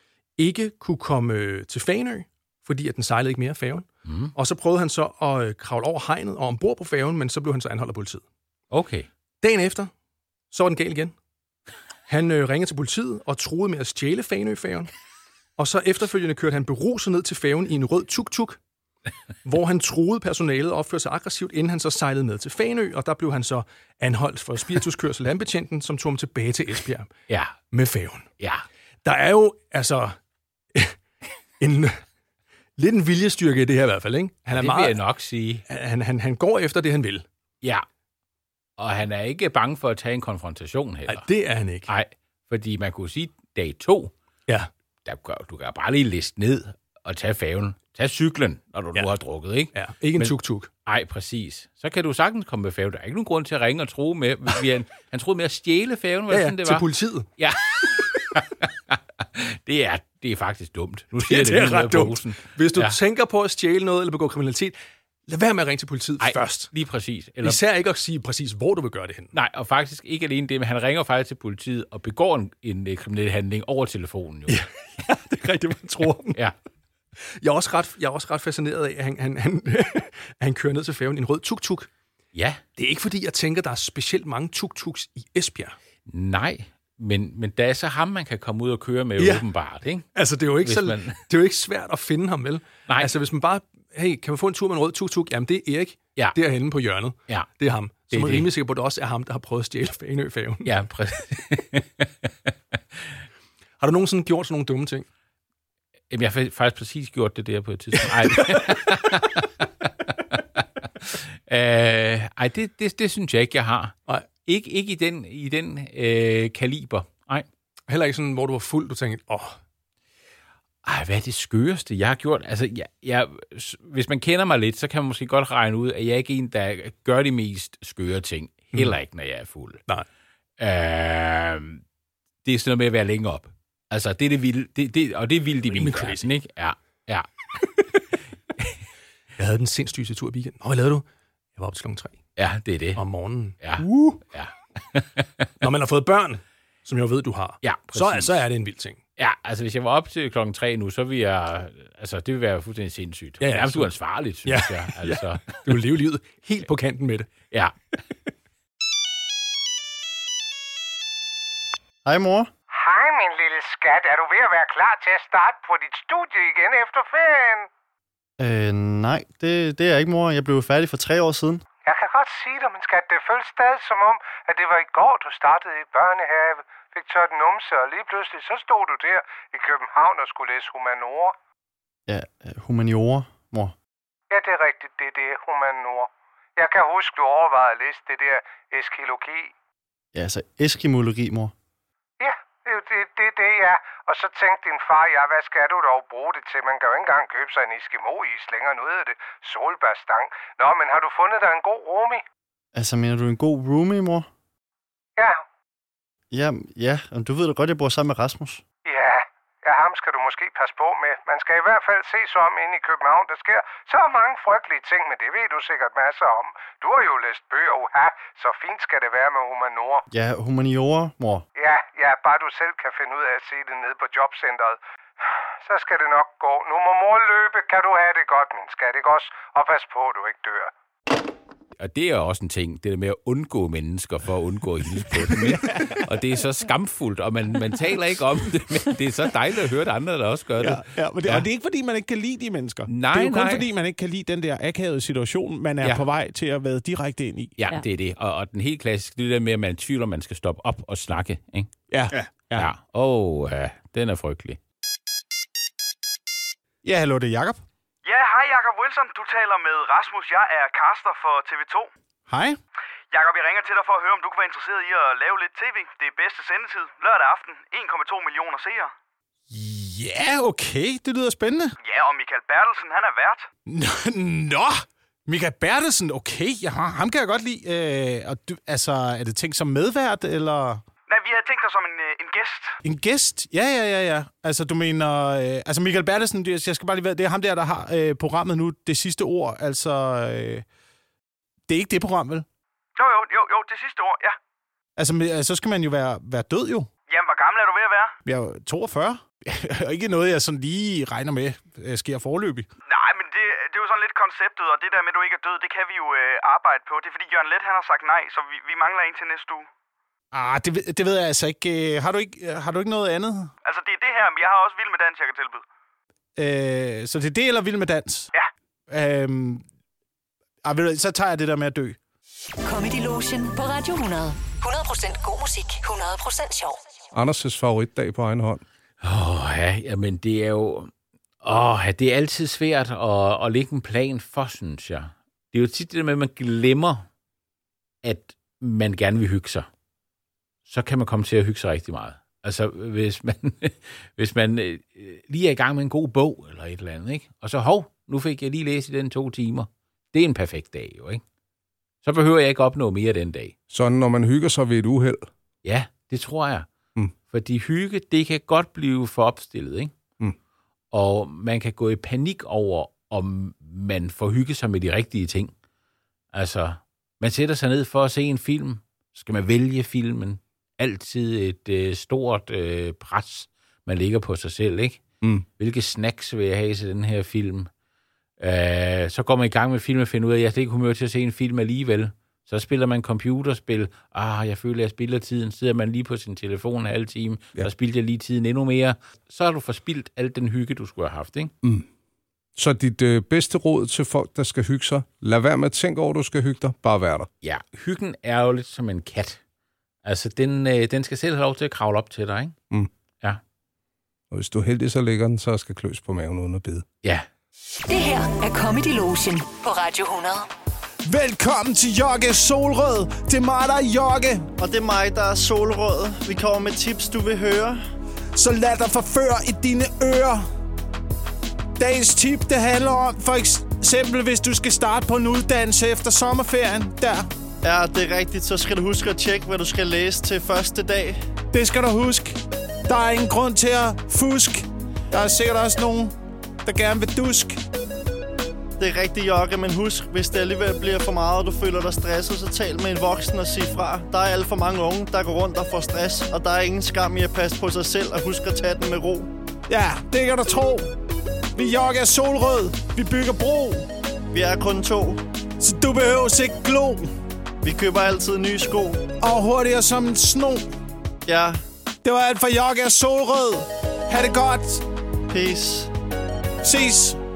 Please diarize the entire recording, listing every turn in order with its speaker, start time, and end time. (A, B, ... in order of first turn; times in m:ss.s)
0:00.4-0:08.2 A
0:04.0-0:04.3 B
0:08.7-0:09.1 B
0:09.4-0:09.9 A
0:10.5-0:11.1 A
0:12.1-0:14.9 A
0:15.6-0:18.6 A
0:19.4-0:27.1 A
0:27.3-0:27.5 B
0:27.7-0:28.3 A
0:29.0-0:30.2 A
0:31.6-0:32.0 A
0:32.8-0:35.0 A
0:34.5-0:35.6 B
0:35.6-0:37.2 A
0:38.8-0:41.2 B
0:41.1-0:41.9 A
0:41.8-0:44.1 B
0:45.0-0:50.3 B
0:49.7-0:50.7 A
0:50.8-0:56.8 B
0:56.3-0:57.2 A
0:57.4-0:58.7 B
0:59.4-1:03.0 B
1:01.2-1:04.7 A
1:05.3-1:06.7 A
1:06.2-1:07.6 B
1:07.4-1:09.3 A
1:09.3-1:14.6 B
1:14.5-1:16.4 A
1:17.4-1:21.9 A
1:22.3-1:22.6 B
1:22.8-1:25.7 A
1:26.1-1:30.1 B
1:29.2-1:29.4 A
1:30.1-1:40.7 A
1:30.6-1:31.2 B
1:38.1-1:38.5 B
1:40.6-1:42.1 B
1:43.8-1:45.0 A
1:46.1-1:50.4 B
1:51.0-1:57.4 B
1:57.9-1:59.6 A
2:00.8-2:09.8 B
2:10.6-2:11.8 B
2:12.4-2:17.2 B
2:15.7-2:16.3 A
2:19.4-2:22.2 A
2:22.4-2:23.0 B
2:22.9-2:24.2 A
2:23.6-2:25.3 B
2:25.6-2:29.0 A
2:27.6-2:28.4 B
2:29.2-2:35.6 B
2:33.4-2:33.9 A
2:34.4-2:37.3 A
2:42.0-2:42.5 C
2:42.7-2:47.7 D
2:48.4-2:51.6 C
2:51.8-3:01.3 D
3:02.1-3:03.7 C
3:04.3-3:09.5 D
3:10.1-3:11.5 C
3:12.2-3:22.2 D
3:22.7-3:24.2 C
3:26.3-3:28.6 C
3:28.8-3:40.0 D
3:40.1-3:41.4 C
3:41.6-3:44.8 D
3:45.6-3:50.7 D
3:51.8-4:01.4 B
3:55.3-3:56.0 E
4:00.6-4:07.5 E
4:02.9-4:03.7 B
4:07.6-4:11.7 B
4:11.9-4:12.7 E
4:12.5-4:14.6 B
4:16.8-4:17.6 E
4:18.0-4:21.9 F
4:22.3-4:22.6 E
4:23.1-4:28.9 F
4:29.5-4:31.7 E
4:31.8-4:33.5 F
4:33.7-4:40.8 E
4:41.1-4:42.8 F
4:42.8-4:50.6 E
4:51.7-4:52.4 E
4:53.0-4:54.4 F
4:55.0-4:56.9 E
4:57.1-4:58.2 F
4:58.2-5:02.6 E
5:02.8-5:09.7 F
5:10.3-5:13.5 E
5:13.6-5:15.6 F
5:16.4-5:18.3 E
5:18.9-5:19.6 E
5:20.6-5:22.0 E
5:22.6-5:26.8 G
5:27.1-5:28.6 H
5:29.0-5:30.9 B
5:31.4-5:37.0 B
5:38.0-5:39.7 B
5:40.6-5:51.2 B
5:52.0-5:53.5 B
5:53.7-5:55.3 H
5:55.6-5:56.7 B
5:57.3-5:59.9 B
6:00.9-6:05.5 B
6:06.3-6:15.0 B
6:15.6-6:17.7 B
6:18.4-6:31.5 B
6:32.6-6:37.3 H
6:37.4-6:39.4 B
6:40.0-6:42.5 B
6:44.3-6:46.8 H
6:47.9-6:50.4 G
6:51.0-6:54.5 E
6:54.6-6:57.8 C
6:58.3-7:00.4 E
7:01.8-7:07.3 E
7:07.6-7:11.2 C
7:11.5-7:16.1 E
7:16.6-7:17.6 E
7:18.8-7:29.3 C
7:29.7-7:30.9 E
7:31.5-7:33.8 E
7:34.3-7:35.2 C
7:35.6-7:37.0 E
7:37.6-7:39.0 C
7:39.2-7:40.6 E
7:41.2-7:41.6 C
7:42.0-7:44.8 E
7:45.3-7:45.9 C
7:46.6-7:47.2 E